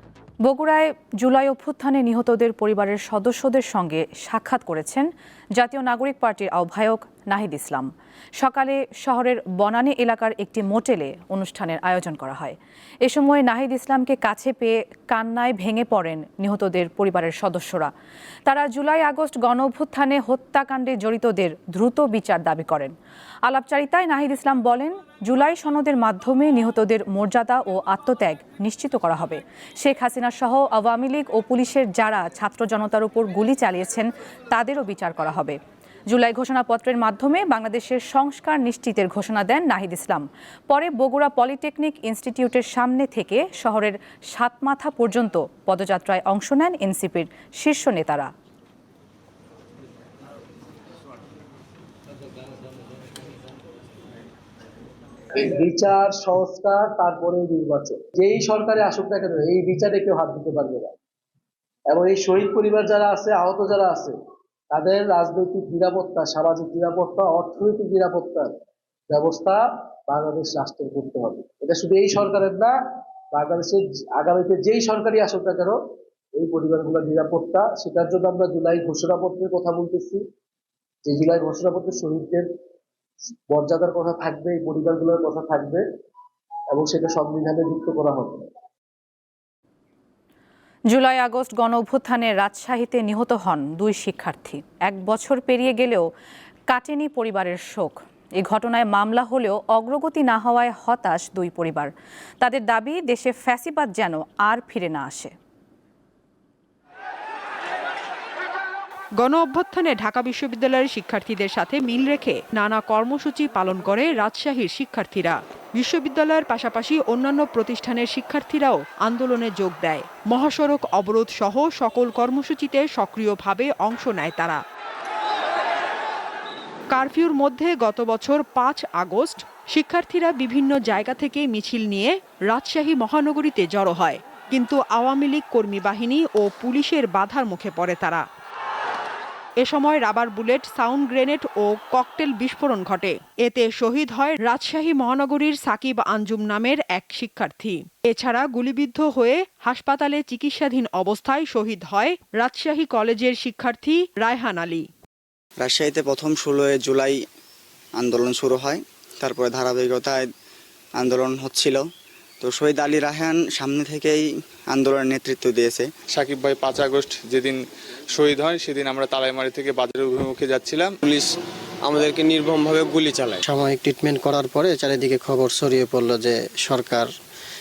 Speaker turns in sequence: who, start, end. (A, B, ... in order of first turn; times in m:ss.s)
0:00.4-0:07.9 A
0:08.4-0:17.9 A
0:18.4-0:22.9 A
0:23.4-0:35.6 A
0:36.1-0:48.3 A
0:55.3-1:01.0 B
1:01.9-1:04.2 B
1:04.7-1:08.5 B
1:09.1-1:12.8 B
1:13.3-1:15.8 B
1:16.3-1:20.2 B
1:21.0-1:22.5 B
1:23.5-1:25.8 B
1:26.7-1:28.5 B
1:30.9-1:36.1 A
1:36.7-1:45.3 A
1:49.2-2:04.6 C
2:06.9-2:18.2 C
2:19.6-2:34.9 C
2:35.6-2:37.2 D
2:37.9-2:40.3 D
2:40.9-2:41.9 D
2:42.4-2:45.9 D
2:46.1-2:47.6 E
2:48.2-2:50.9 E
2:51.0-2:53.4 F
2:53.4-2:57.1 G